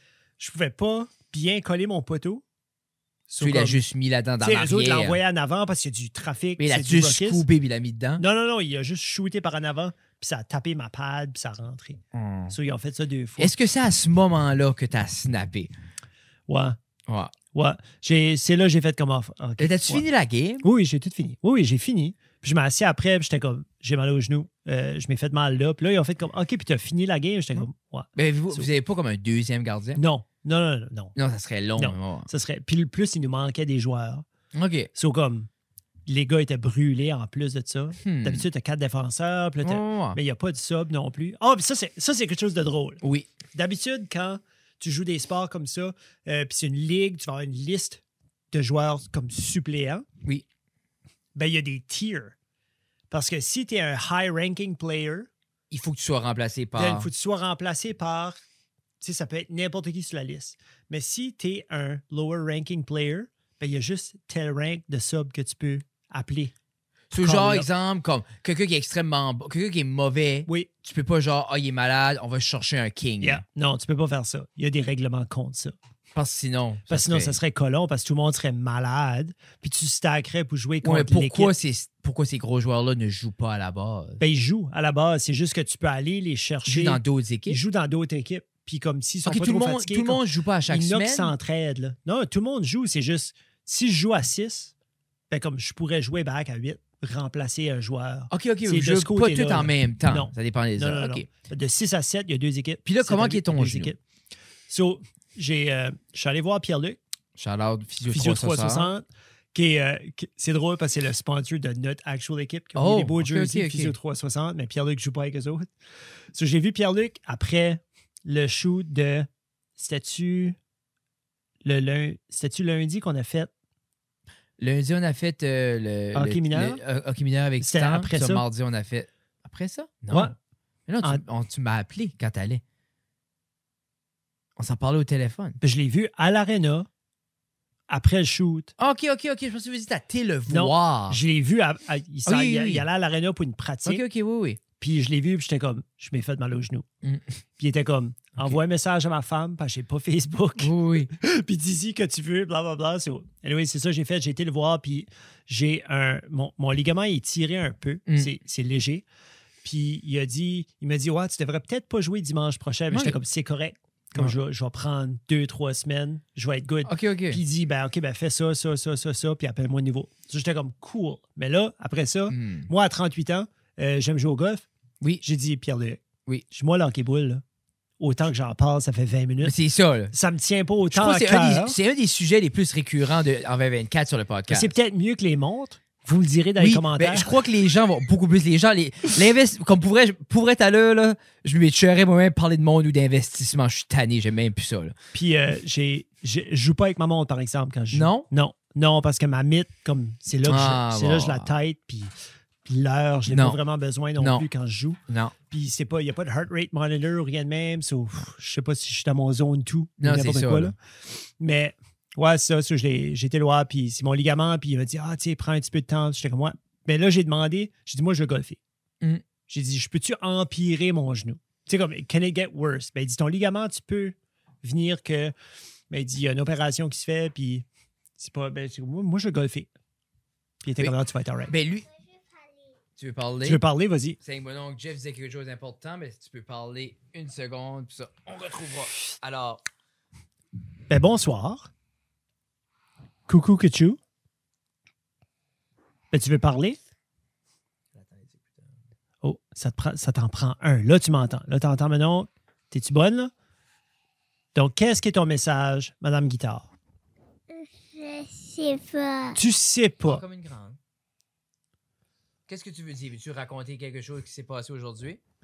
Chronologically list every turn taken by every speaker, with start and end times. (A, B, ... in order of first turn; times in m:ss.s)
0:00.4-0:02.4 A
0:03.3-0:03.8 A
0:03.4-0:05.2 B
0:04.4-0:07.4 A
0:06.6-0:08.2 B
0:08.2-0:13.5 A
0:12.1-0:12.5 B
0:13.4-0:15.7 B
0:16.5-0:16.8 A
0:17.1-0:17.3 B
0:17.5-0:20.0 A
0:19.6-0:20.6 B
0:20.6-0:28.7 A
0:28.2-0:30.0 B
0:30.0-0:31.1 A
0:31.2-0:32.3 B
0:31.8-0:34.2 A
0:34.5-0:34.9 B
0:34.9-0:35.5 A
0:36.1-0:43.0 A
0:38.0-0:38.4 B
0:39.6-0:40.2 B
0:43.0-0:43.3 B
0:43.5-0:50.1 A
0:51.4-0:52.4 A
0:53.1-0:55.3 A
0:55.7-0:57.1 B
0:56.7-0:58.4 A
0:59.0-1:06.5 A
1:07.1-1:13.4 B
1:07.2-1:07.7 A
1:13.2-1:15.7 A
1:16.1-1:17.4 B
1:16.9-1:21.5 A
1:20.8-1:24.2 B
1:24.2-1:34.7 A
1:26.6-1:27.6 B
1:29.2-1:31.3 B
1:35.3-1:44.0 A
1:38.3-1:41.3 B
1:42.8-1:43.9 B
1:44.7-1:47.0 A
1:47.4-1:48.9 B
1:48.1-1:55.7 A
1:52.8-1:54.0 B
1:56.3-2:00.6 A
2:01.6-2:03.5 A
2:04.6-2:10.3 B
2:06.1-2:06.8 A
2:07.6-2:08.4 A
2:10.9-2:12.6 B
2:14.6-2:15.6 B
2:15.6-2:16.9 A
2:17.9-2:18.7 A
2:18.8-2:21.2 B
2:20.5-2:24.0 A
2:22.2-2:22.8 B
2:23.8-2:24.6 B
2:24.8-2:26.9 A
2:27.6-2:39.0 A
2:30.6-2:31.1 B
2:39.6-2:54.7 A
2:42.9-2:43.2 B
2:46.8-2:47.4 B
2:52.3-2:52.7 B
2:55.2-2:57.4 A
2:58.0-2:59.5 A
2:59.4-3:00.1 B
3:00.1-3:01.8 A
3:00.9-3:04.7 B
3:04.5-3:07.4 A
3:06.6-3:15.0 B
3:15.1-3:22.1 A
3:17.9-3:18.2 B
3:20.4-3:21.5 B
3:22.6-3:30.8 A
3:23.3-3:23.6 B
3:24.2-3:24.4 B
3:25.1-3:25.3 B
3:30.0-3:30.7 B
3:31.4-3:38.6 A
3:39.5-3:45.3 A
3:45.9-3:47.6 A
3:48.2-3:49.7 A
3:50.6-3:51.5 A
3:51.5-3:51.8 B
3:51.7-3:52.7 C
3:53.0-3:53.6 B
3:53.4-3:54.2 A
3:54.2-3:59.6 B
4:00.9-4:01.7 A
4:03.3-4:04.0 A
4:06.1-4:06.8 A
4:07.9-4:08.8 B
4:09.2-4:13.3 A
4:14.5-4:16.7 A
4:17.5-4:19.4 C
4:19.3-4:20.2 A
4:20.0-4:20.8 B
4:22.5-4:25.2 B